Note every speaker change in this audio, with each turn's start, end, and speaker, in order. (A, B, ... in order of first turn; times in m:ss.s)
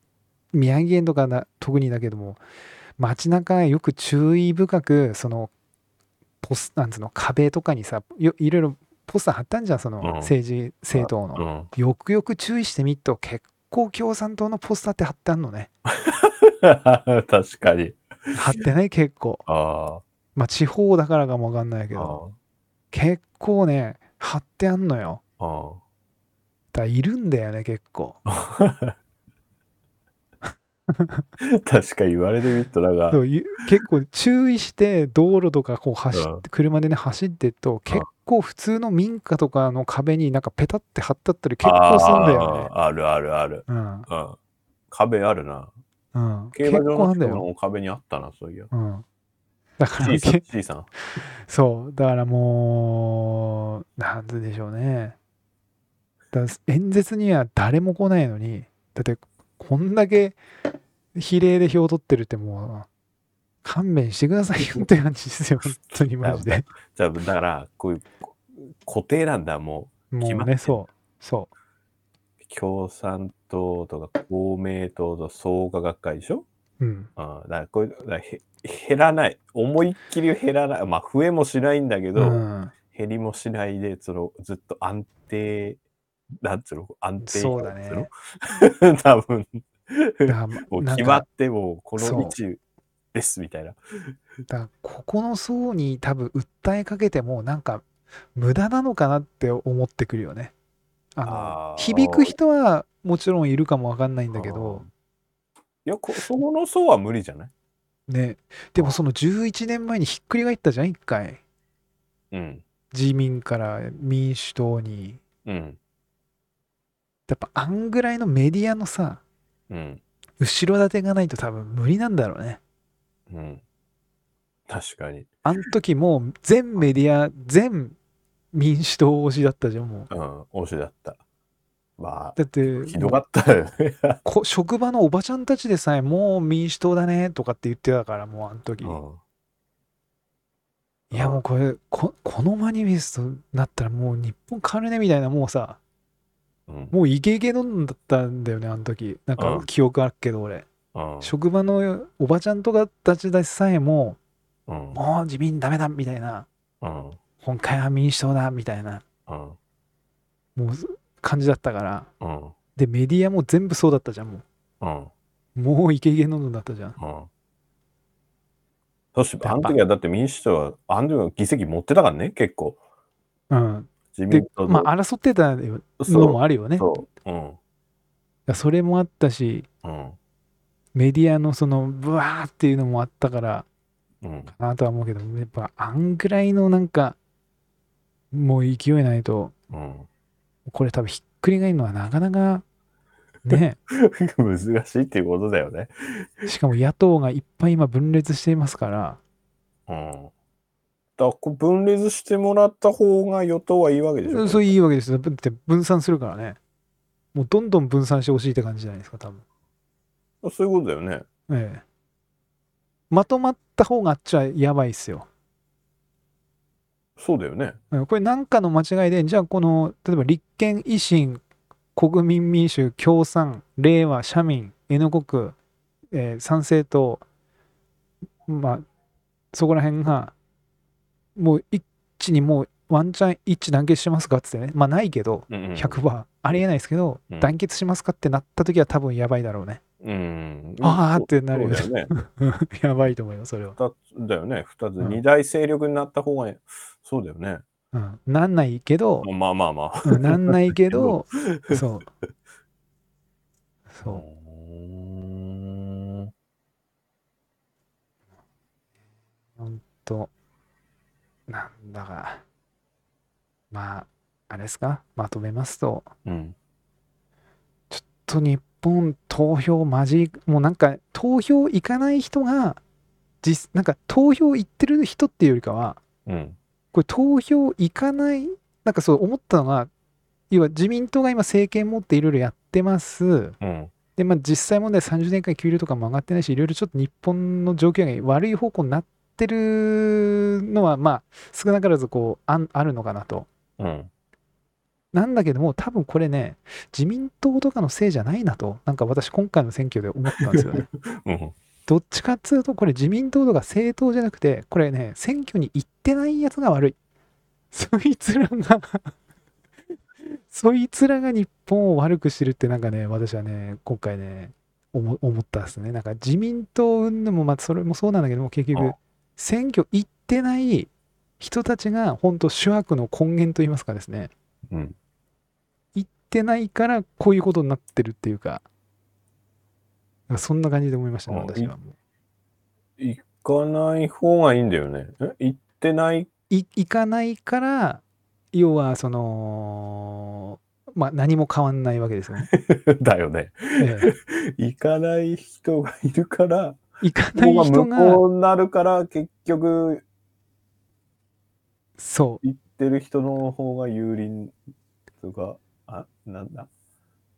0:00.5-0:02.4 A
0:03.0-0:05.5 A
0:06.4-0:15.7 A
0:10.0-0:10.4 B
0:10.9-0:11.7 B
0:15.9-0:18.4 B
0:18.3-0:19.4 A
0:19.5-0:20.0 B
0:20.4-0:22.2 A
0:22.0-0:22.3 B
0:22.9-0:25.2 A
0:25.4-0:25.8 B
0:26.7-0:28.2 A
0:28.3-0:29.0 B
0:30.9-0:31.2 A
0:31.4-0:33.2 B
0:33.1-0:42.7 A
0:36.1-0:36.4 B
0:41.6-0:44.4 B
0:43.7-0:44.1 A
0:44.9-0:45.7 B
0:46.1-0:47.5 A
0:46.5-0:48.7 B
0:48.7-0:49.0 A
0:49.8-0:50.4 A
0:50.0-0:50.9 B
0:51.2-0:55.2 A
0:56.3-1:00.4 A
1:01.2-1:02.9 A
1:03.6-1:06.7 A
1:06.2-1:10.8 B
1:10.1-1:11.5 A
1:12.4-1:16.5 B
1:16.8-1:17.1 A
1:17.2-1:22.4 B
1:22.2-1:22.7 A
1:22.9-1:25.8 B
1:26.4-1:32.6 B
1:27.2-1:28.1 A
1:30.3-1:31.2 A
1:32.0-1:32.4 A
1:33.1-1:33.8 B
1:34.5-1:40.5 A
1:41.2-1:44.8 A
1:41.2-1:42.4 B
1:44.3-1:44.9 B
1:45.8-1:47.5 B
1:48.1-1:51.4 A
1:52.3-1:52.6 B
1:52.9-1:55.2 A
1:55.4-1:55.8 B
1:57.3-1:59.2 A
1:59.7-2:00.0 B
2:00.4-2:02.6 A
2:03.3-2:03.6 B
2:04.7-2:05.3 B
2:05.4-2:08.0 A
2:08.5-2:10.1 A
2:10.1-2:11.2 B
2:12.0-2:14.2 B
2:12.4-2:13.2 A
2:14.2-2:19.0 A
2:18.8-2:19.2 B
2:21.1-2:25.8 A
2:21.1-2:21.4 B
2:26.7-2:27.0 B
2:26.9-2:30.7 A
2:29.4-2:29.7 B
2:30.9-2:31.3 B
2:31.2-2:34.2 A
2:34.7-2:35.0 B
2:34.9-2:36.5 A
2:36.8-2:37.2 B
2:37.4-2:39.0 A
2:39.3-2:39.6 B
2:40.6-2:42.1 A
2:42.2-2:42.5 B
2:42.8-2:44.4 A
2:44.8-2:45.1 B
2:45.6-2:47.0 A
2:47.0-2:47.3 B
2:49.2-2:52.8 B
2:49.4-2:49.8 A
2:53.5-2:56.9 A
2:54.1-2:54.9 B
2:56.0-2:57.6 B
2:58.5-2:59.7 A
2:59.8-3:00.2 B
3:01.0-3:03.7 A
3:04.2-3:04.5 B
3:04.6-3:07.2 A
3:08.3-3:09.5 A
3:09.7-3:10.1 B
3:10.7-3:12.6 A
3:13.5-3:13.8 A
3:13.5-3:16.5 B
3:16.5-3:19.2 A
3:19.9-3:20.3 B
3:21.2-3:24.8 B
3:24.2-3:26.6 A
3:27.3-3:29.4 A
3:30.4-3:31.2 B
3:31.5-3:31.8 A
3:33.1-3:35.3 A
3:37.2-3:37.8 B
3:37.9-3:41.4 A
3:42.0-3:45.6 A
3:46.1-3:47.2 A
3:48.5-3:48.8 A
3:49.5-3:50.4 A
3:51.4-3:59.8 A
3:55.5-3:56.0 B
3:57.3-3:57.6 B
4:00.0-4:02.1 B
4:00.8-4:03.8 A
4:03.8-4:07.6 B
4:07.9-4:09.3 A
4:09.2-4:11.8 B
4:10.0-4:12.1 A
4:13.9-4:14.2 A
4:14.0-4:16.3 B
4:19.6-4:20.3 A
4:21.5-4:22.4 A
4:23.7-4:26.1 A
4:26.2-4:26.6 B
4:27.9-4:32.8 A
4:33.4-4:36.0 A
4:36.3-4:36.6 B
4:36.9-4:39.9 A
4:40.5-4:43.6 A
4:43.6-4:43.9 B
4:44.2-4:53.5 A
4:53.8-4:54.1 B
4:55.1-5:00.9 A
5:00.5-5:01.5 B
5:01.9-5:07.0 A
5:07.7-5:09.1 A
5:10.3-5:24.3 A
5:24.7-5:25.0 B
5:26.0-5:28.6 A
5:30.3-5:32.0 A
5:31.3-5:31.7 B
5:33.0-5:36.3 B
5:36.5-5:42.5 A
5:42.5-5:46.8 B
5:43.8-5:44.1 A
5:47.0-5:48.2 A
5:47.4-5:50.0 B
5:52.0-5:52.4 A
5:52.4-5:54.6 B
5:55.2-5:56.7 B